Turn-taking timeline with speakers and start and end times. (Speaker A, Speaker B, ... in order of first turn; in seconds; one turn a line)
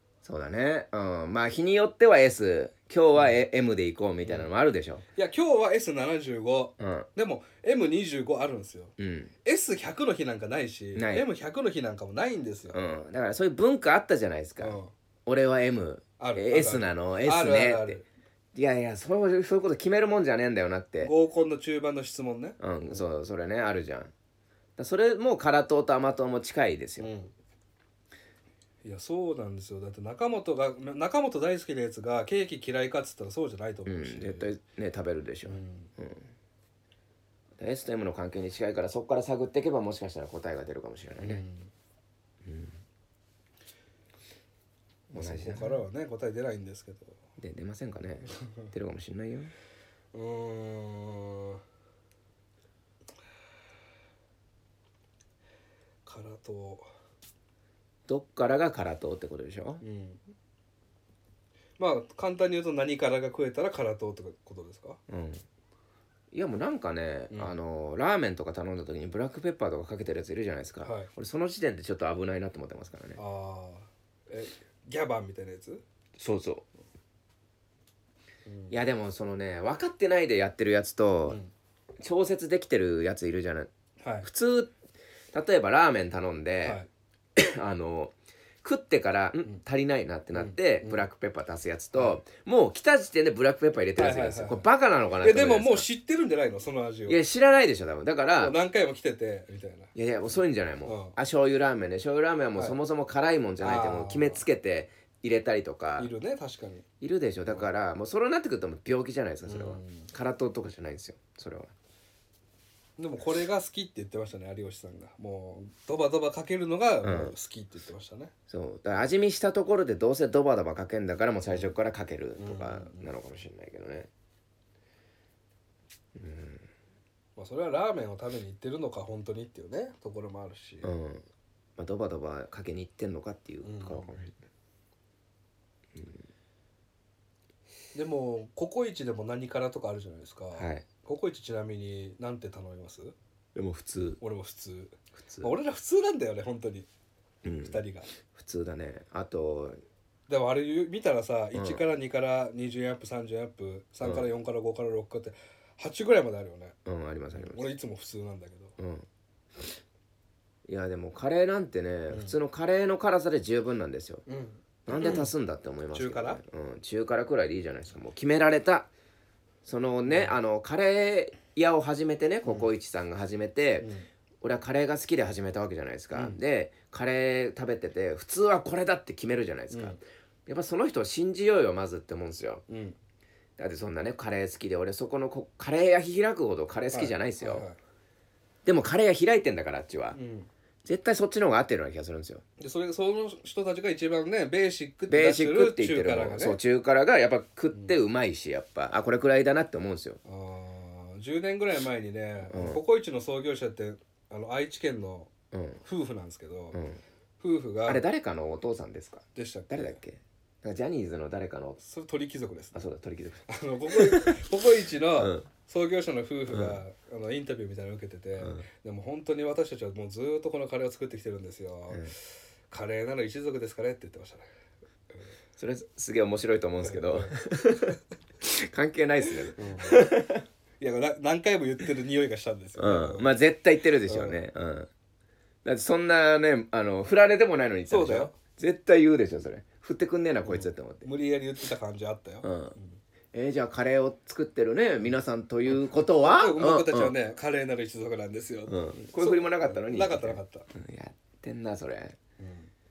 Speaker A: 0.2-5.0
Speaker B: 3.1-3.4
Speaker B: 4.2-4.5
Speaker B: 5.2-8.9
Speaker A: 6.8-7.1
Speaker A: 9.0-9.3
Speaker B: 9.4-12.8
Speaker A: 10.9-11.3
Speaker A: 12.7-18.0
Speaker B: 14.6-14.9
Speaker B: 16.2-18.0
Speaker A: 18.5-21.1
Speaker B: 21.0-22.6
Speaker A: 22.6-24.1
Speaker A: 24.8-27.1
Speaker B: 27.0-27.3
Speaker B: 28.8-34.5
Speaker A: 33.9-36.3
Speaker B: 35.4-35.9
Speaker A: 37.6-41.4
Speaker B: 41.2-41.7
Speaker A: 42.4-42.8
Speaker A: 45.1-45.8
Speaker B: 45.1-47.2
Speaker A: 47.4-49.5
Speaker B: 50.1-51.6
Speaker B: 56.0-56.9
Speaker A: 58.1-59.8
Speaker B: 59.8-60.2
Speaker B: 61.8-65.0
Speaker A: 65.1-65.4
Speaker A: 66.3-73.2
Speaker B: 70.8-71.1
Speaker B: 73.2-75.8
Speaker A: 76.2-76.6
Speaker B: 78.5-78.7
Speaker A: 78.7-81.4
Speaker B: 81.2-81.5
Speaker A: 82.0-83.7
Speaker B: 84.0-84.3
Speaker A: 84.2-84.7
Speaker A: 85.3-86.8
Speaker B: 86.6-86.9
Speaker A: 87.4-95.8
Speaker B: 90.3-91.0
Speaker B: 91.9-92.2
Speaker B: 94.0-94.7
Speaker B: 95.2-97.2
Speaker A: 97.1-98.6
Speaker B: 98.4-99.9
Speaker A: 99.9-106.1
Speaker B: 100.8-101.2
Speaker B: 103.6-104.4
Speaker B: 106.0-106.8
Speaker A: 107.0-111.7
Speaker B: 109.5-110.1
Speaker B: 113.0-118.3
Speaker A: 117.0-117.3
Speaker A: 118.5-124.1
Speaker B: 122.4-123.1
Speaker A: 126.1-126.7
Speaker B: 127.3-130.9
Speaker A: 130.8-131.2
Speaker A: 131.8-134.4
Speaker B: 133.6-134.2
Speaker A: 135.9-136.2
Speaker B: 137.9-143.1
Speaker A: 140.5-140.8
Speaker A: 143.5-144.2
Speaker B: 144.2-146.9
Speaker A: 145.1-145.5
Speaker A: 147.4-149.8
Speaker B: 147.6-148.1
Speaker B: 150.3-156.7
Speaker A: 151.5-151.8
Speaker A: 156.8-157.7
Speaker B: 157.3-158.7
Speaker A: 158.8-159.1
Speaker A: 160.7-164.2
Speaker B: 162.1-162.4
Speaker B: 164.3-165.3
Speaker A: 164.9-168.9
Speaker B: 165.9-166.4
Speaker A: 169.6-173.9
Speaker B: 170.1-170.3
Speaker B: 172.4-172.7
Speaker B: 173.8-174.1
Speaker A: 174.4-182.6
Speaker B: 176.1-176.4
Speaker B: 179.7-180.0
Speaker B: 182.7-183.0
Speaker A: 183.6-187.7
Speaker B: 186.9-187.8
Speaker A: 188.6-190.2
Speaker B: 190.1-190.5
Speaker A: 190.8-192.4
Speaker B: 192.6-196.6
Speaker A: 195.1-200.2
Speaker B: 197.7-198.0
Speaker B: 200.2-205.3
Speaker A: 202.5-202.8
Speaker A: 205.5-205.8
Speaker B: 205.8-206.8
Speaker A: 206.7-207.0
Speaker B: 207.4-208.0
Speaker A: 207.8-211.8
Speaker B: 209.3-210.0
Speaker B: 211.8-212.8
Speaker A: 212.7-214.4
Speaker B: 213.5-224.5
Speaker A: 215.1-215.5
Speaker A: 216.5-216.8
Speaker A: 218.4-218.6
Speaker A: 225.6-230.4
Speaker B: 226.8-227.4
Speaker B: 229.5-230.0
Speaker B: 230.8-233.3
Speaker A: 232.8-234.9
Speaker B: 234.1-234.4
Speaker A: 235.6-241.1
Speaker B: 237.9-238.3
Speaker B: 240.4-243.0
Speaker A: 242.4-242.7
Speaker A: 243.3-247.1
Speaker B: 246.2-250.7
Speaker A: 248.7-252.2
Speaker B: 252.4-252.7